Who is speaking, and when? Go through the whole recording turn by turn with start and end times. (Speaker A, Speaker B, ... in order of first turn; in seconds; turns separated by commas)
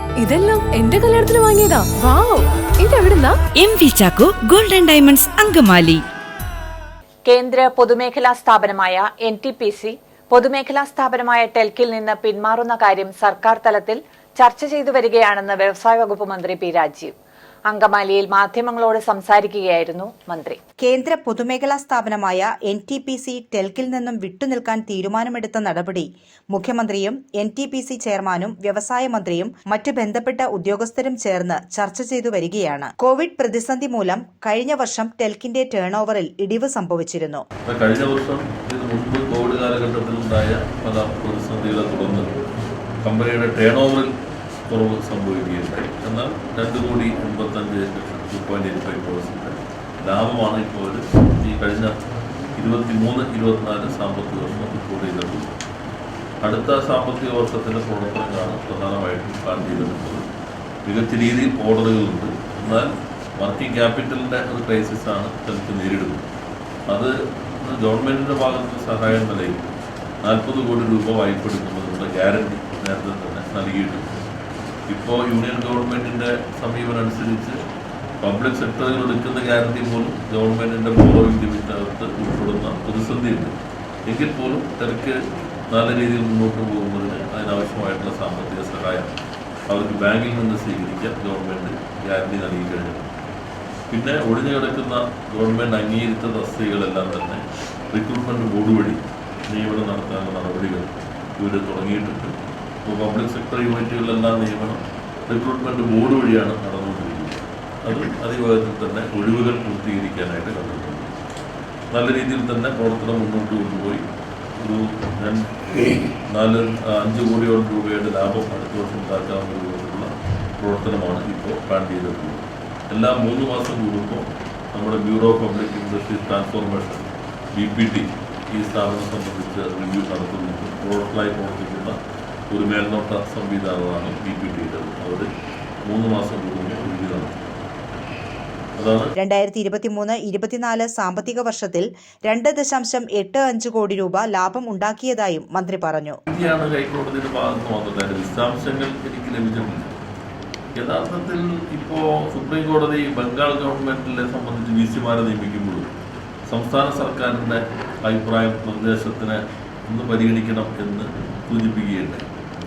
Speaker A: 0.2-3.4, Speaker B: 3.6-6.0, Speaker C: 7.3-17.1, Speaker C: 17.7-20.6, Speaker D: 20.8-37.4, Speaker E: 37.6-42.3, Speaker E: 43.0-44.1, Speaker E: 44.7-51.9, Speaker E: 52.6-55.5, Speaker E: 56.4-60.3, Speaker E: 60.9-66.2, Speaker E: 66.9-69.6, Speaker E: 70.2-74.1, Speaker E: 74.9-77.6, Speaker E: 78.2-83.5, Speaker E: 84.1-85.2, Speaker E: 85.7-89.1, Speaker E: 89.7-93.1, Speaker E: 93.9-111.2, Speaker E: 111.9-114.0, Speaker E: 114.6-132.0, Speaker E: 132.5-135.3, Speaker E: 135.8-137.4, Speaker E: 138.8-139.1, Speaker D: 139.2-146.2, Speaker E: 146.3-149.9, Speaker E: 150.8-155.9, Speaker E: 156.5-162.3